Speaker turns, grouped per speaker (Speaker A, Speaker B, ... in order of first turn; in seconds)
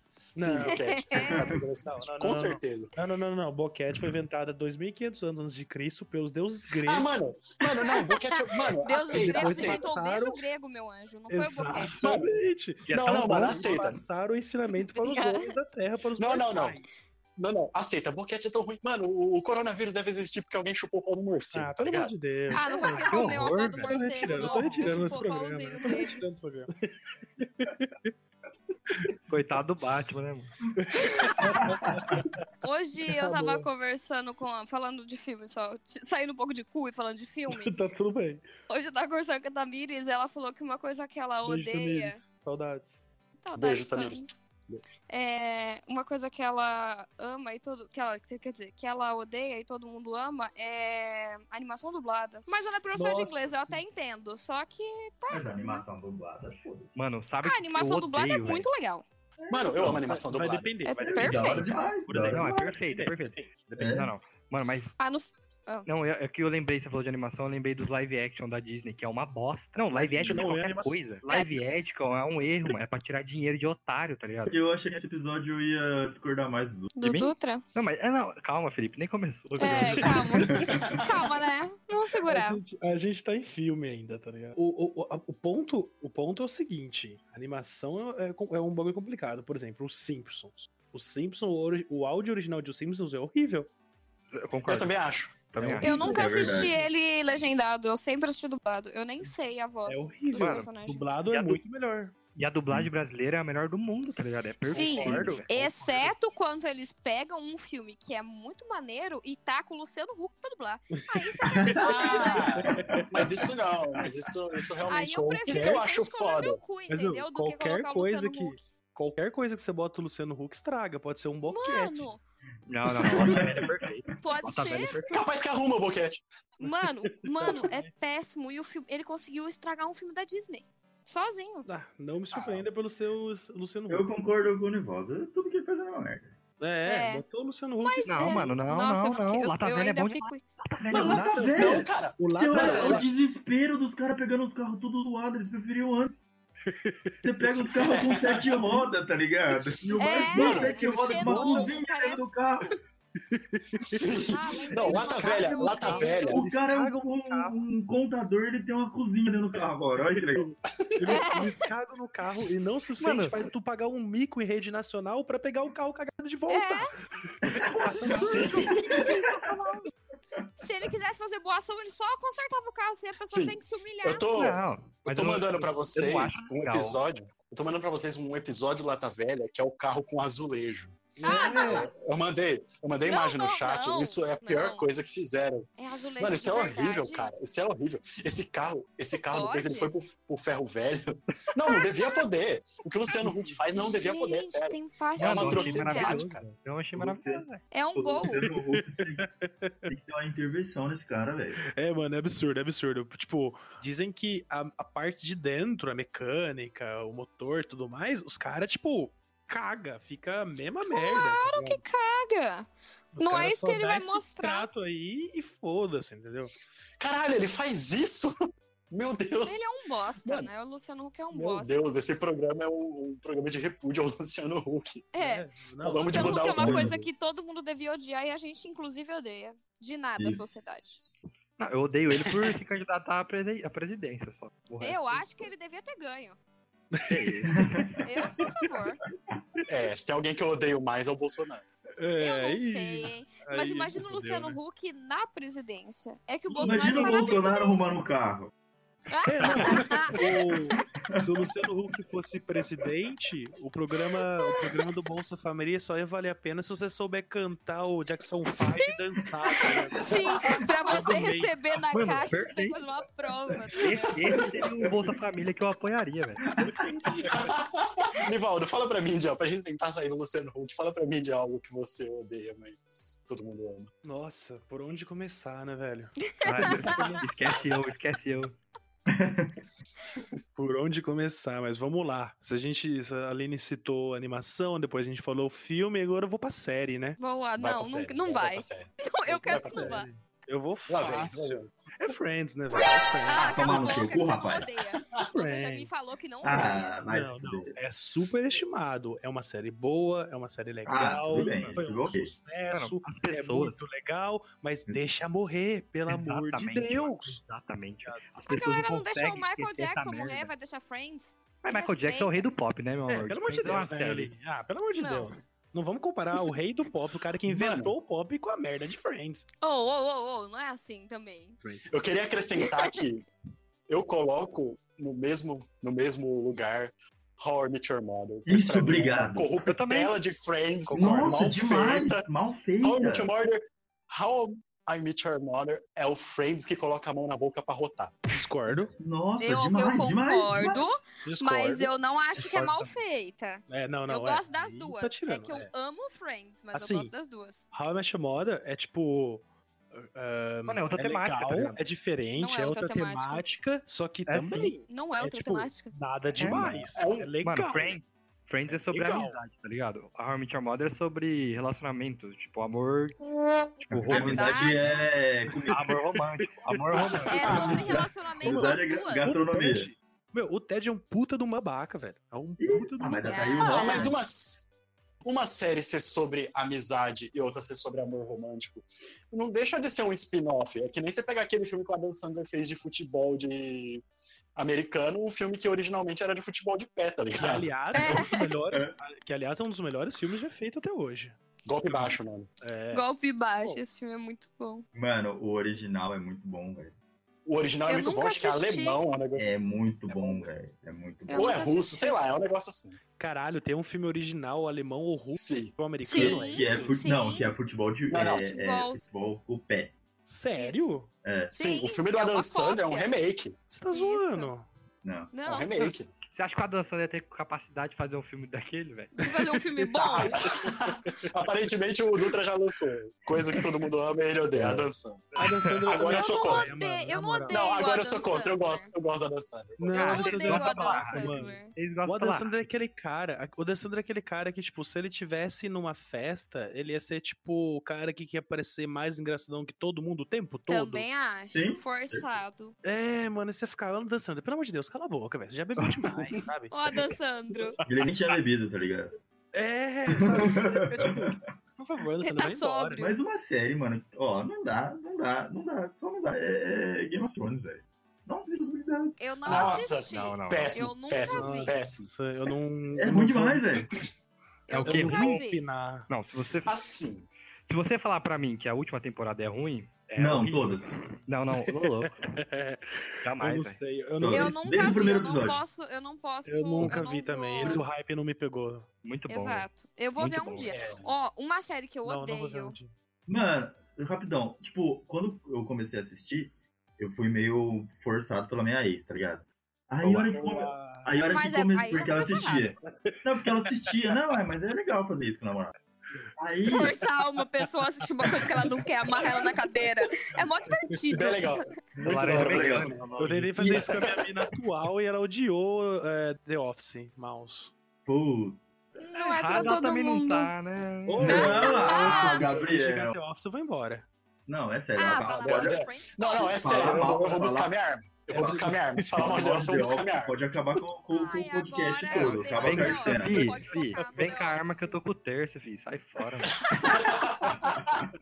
Speaker A: 0.4-2.9, 6.8-9.9, 12.0-12.3, 12.9-14.0, 16.2-16.8, 17.4-22.1, 43.5-44.8, 59.5-60.7, 80.8-81.1, 94.7-95.9, 104.7-105.4, 111.8-116.6, 125.1-126.2, 132.3-132.7, 141.6-143.1, 147.8-148.6, 150.3-150.9, 153.9-156.4, 160.8-161.3, 168.0-169.1, 173.3-196.4, 217.0-218.3, 218.9-219.7, 220.2-220.5, 221.3-225.1, 225.8-227.1, 239.7-241.7, 267.3-273.9, 287.6-290.1, 290.9-291.7, 317.5-317.9, 321.9-323.3, 323.9-332.3, 332.8-338.1, 356.4-357.3, 367.0-367.9, 373.6-374.7, 375.2-384.0, 384.6-388.3, 391.6-392.5, 397.5-400.5, 401.3-403.0, 405.3-405.7, 408.1-408.5, 411.5-413.6, 415.5-416.1, 419.9-425.2, 425.9-426.7, 427.5-430.2, 459.5-462.1, 466.6-467.3, 480.5-481.1, 501.1-504.2, 515.0-520.4, 526.8-527.9
Speaker B: 0.4-7.1, 9.1-10.4, 11.3-16.9, 21.5-26.8, 27.4-28.1, 30.7-32.5, 33.1-33.7, 37.5-38.5, 41.5-43.0, 52.9-53.8, 59.8-63.5, 69.9-71.0, 79.7-81.0, 82.2-93.7, 95.8-96.9, 99.9-102.2, 104.7-106.1, 112.6-113.1, 115.5-115.8, 116.9-122.1, 127.2-127.9, 131.7-134.1, 136.6-138.6, 140.9-143.1, 146.7-147.4, 150.3-151.8, 153.3-157.6, 160.1-169.9, 181.2-181.9, 193.2-193.6, 198.2-199.7, 201.7-211.8, 213.1-216.5, 225.2-226.6, 237.0-237.5, 242.0-244.6, 246.5-247.2, 249.2-262.2, 266.6-267.6, 274.0-277.7, 280.6-287.2, 289.4-294.2, 295.3-295.9, 296.5-307.4, 313.1-319.4, 321.6-321.9, 330.9-331.5, 338.3-338.9, 341.2-341.9, 343.7-345.7, 346.7-347.1, 347.7-358.0, 358.7-359.4, 365.7-373.6, 387.4-393.1, 403.2-406.9, 410.2-411.1, 413.7-414.7, 419.4-421.5, 425.4-427.7, 429.8-441.1, 442.8-446.7, 449.5-453.1, 461.3-463.6, 464.8-466.1, 471.6-475.0, 476.5-478.9, 482.1-482.9, 490.0-491.1, 493.6-494.1, 503.2-507.7, 511.1-514.1, 518.3-519.6, 524.0-524.3
Speaker C: 0.7-1.4, 8.0-12.0, 14.8-15.5, 22.5-26.2, 31.2-31.6, 32.6-37.7, 38.7-42.2, 43.4-44.3, 45.1-55.9, 57.4-59.0, 60.8-61.8, 65.0-65.9, 77.0-77.6, 79.6-82.6, 95.8-101.2, 104.7-112.5, 114.9-118.7, 121.5-122.2, 124.2-125.1, 126.6-131.7, 136.8-137.2, 137.8-140.4, 150.0-152.3, 154.3-156.4, 161.1-161.5, 166.5-166.9, 170.6-174.3, 181.2-181.9, 183.1-184.9, 185.8-187.3, 189.1-189.9, 191.7-192.1, 193.7-196.2, 197.7-198.5, 210.8-214.7, 219.4-221.8, 225.2-225.4, 226.0-231.0, 234.8-236.4, 238.0-239.0, 242.2-248.0, 249.1-250.8, 254.4-254.7, 259.6-264.1, 276.4-277.0, 287.2-290.1, 293.3-297.0, 308.5-312.5, 315.0-315.3, 319.6-321.6, 322.6-322.9, 339.4-347.6, 352.4-353.5, 354.9-355.9, 364.1-365.1, 367.3-369.4, 373.2-374.1, 387.9-388.4, 392.9-394.9, 397.9-399.0, 401.3-402.2, 406.0-407.6, 408.1-409.0, 410.6-410.9, 411.5-413.1, 413.9-414.5, 415.3-415.9, 419.1-420.5, 425.9-428.9, 429.9-431.7, 440.7-442.7, 446.7-447.8, 452.2-453.2, 459.2-461.7, 464.7-465.6, 474.3-477.8, 479.3-482.8, 491.3-492.8, 496.6-501.7, 509.0-510.5, 511.2-512.5, 515.0-517.1, 521.1-525.0
Speaker D: 1.3-1.6, 31.4-32.2, 55.3-56.9, 59.4-60.0, 61.0-62.5, 63.7-64.1, 74.5-76.9, 95.9-96.8, 111.5-114.0, 122.9-123.7, 133.9-136.4, 140.9-146.2, 147.2-152.8, 156.3-160.5, 167.4-169.5, 196.9-197.4, 197.9-199.3, 199.9-201.7, 226.5-227.0, 230.2-231.1, 237.6-238.0, 246.6-248.5, 266.4-267.1, 279.1-279.6, 293.4-294.8, 296.4-297.8, 300.9-302.4, 328.5-329.5, 330.9-333.3, 339.0-341.0, 363.9-365.9, 367.5-369.9, 372.6-374.2, 394.9-396.9, 399.4-401.6, 406.1-409.9, 411.2-411.5, 415.0-415.3, 441.5-442.3, 445.8-446.1, 447.9-449.1, 450.1-451.4, 453.0-459.8, 463.0-463.9, 470.2-471.0, 474.2-475.6, 483.3-495.7, 496.4-497.0, 502.0-504.1, 508.1-508.6, 511.2-513.2, 514.5-517.7, 518.3-523.6, 527.6-528.1
Speaker E: 12.8-13.9, 22.9-25.2, 29.3-30.5, 57.0-58.7, 62.1-64.9, 65.9-74.5, 77.0-80.3, 94.3-94.9, 95.5-96.1, 100.3-100.7, 101.3-101.6, 102.3-105.5, 122.7-125.2, 138.1-141.4, 163.0-163.5, 174.3-177.0, 195.2-197.6, 231.6-235.5, 237.1-238.0, 261.9-262.8, 263.7-266.6, 276.4-278.6, 301.3-301.8, 302.7-303.8, 306.1-310.5, 311.6-314.3, 329.6-330.2, 342.4-342.9, 350.7-351.8, 354.3-354.7, 356.4-356.9, 357.4-363.2, 363.8-364.8, 365.7-367.9, 416.3-419.3, 425.4-425.9, 429.9-432.5, 459.5-460.8, 464.7-465.4, 466.1-466.8, 467.7-472.2, 473.2-473.8, 479.0-480.8, 502.0-503.6, 509.1-511.7, 522.1-526.8